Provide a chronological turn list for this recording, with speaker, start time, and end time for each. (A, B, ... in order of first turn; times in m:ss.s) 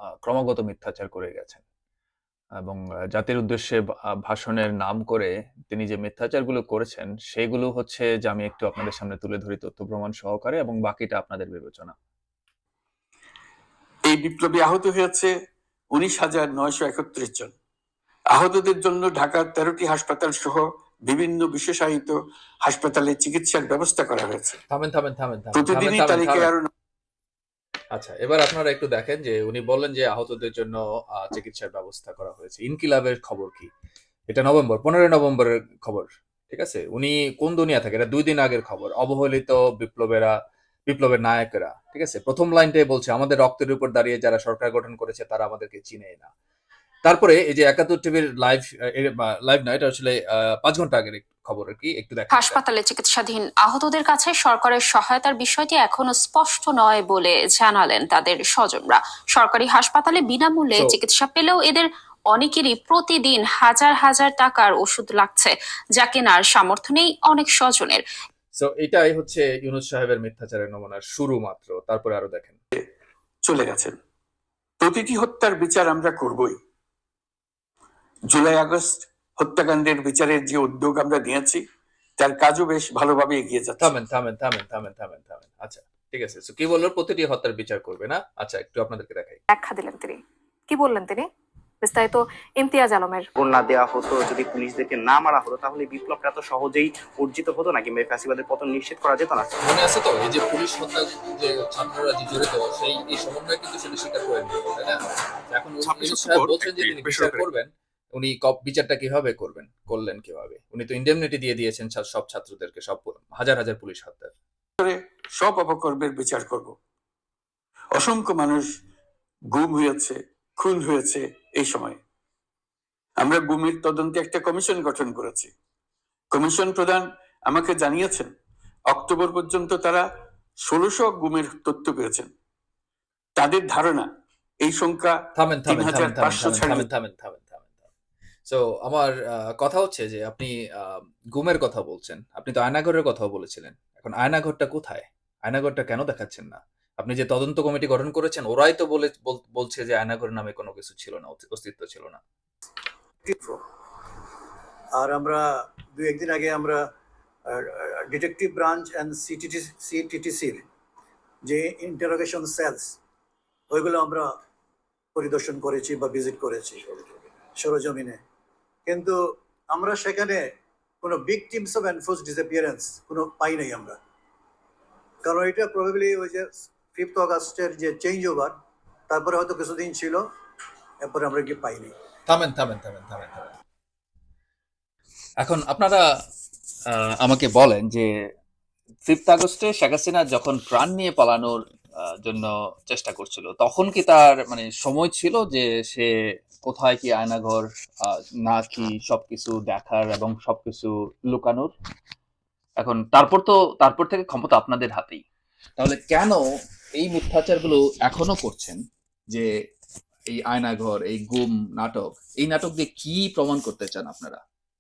0:00.2-0:01.6 A
0:02.6-0:12.0 A
0:14.1-0:15.3 B
0:15.9-0:17.5 B
0:18.3-0:24.6 B
0:24.7-0:26.5 A
0:25.6-0:26.7 B
0:27.9-0:33.7 A
0:34.3-0:40.3 A
0:40.9-0:46.3 A
0:47.1-0:52.6 A
0:52.3-1:08.0 C
1:08.5-1:12.6 A
1:13.4-1:14.0 B
1:14.8-1:16.6 B
1:18.3-1:21.6 B
1:22.2-1:23.9 B
1:23.8-1:29.4 A
1:29.5-1:30.2 D
1:30.7-1:31.3 D
1:31.8-1:33.3 D
1:33.4-1:39.5 E
1:39.6-1:45.0 A
1:45.5-1:54.3 A
1:45.9-1:47.3 E
1:54.8-1:56.8 B
1:57.9-1:58.7 B
1:59.5-2:02.0 B
2:03.2-2:05.5 B
2:06.3-2:08.3 B
2:08.9-2:10.1 B
2:10.6-2:12.3 B
2:13.4-2:14.1 B
2:14.6-2:15.2 B
2:15.4-2:17.8 A
2:15.7-2:16.8 B
2:18.5-2:32.2 A
2:33.2-2:33.6 F
2:35.0-2:36.8 F
2:37.5-2:40.6 F
2:41.4-2:43.0 F
2:43.7-2:44.3 F
2:45.2-2:48.2 F
2:48.9-2:49.2 F
2:49.7-2:50.4 F
2:51.0-2:54.0 F
2:55.2-2:58.5 F
2:59.1-3:00.2 F
3:01.0-3:01.9 F
3:02.3-3:03.6 A
3:05.4-3:06.0 A
3:06.9-3:08.1 A
3:09.1-3:16.1 A
3:16.6-3:21.7 A
3:22.8-3:25.2 A
3:25.8-3:26.4 A
3:27.0-3:28.8 A
3:30.3-3:34.4 A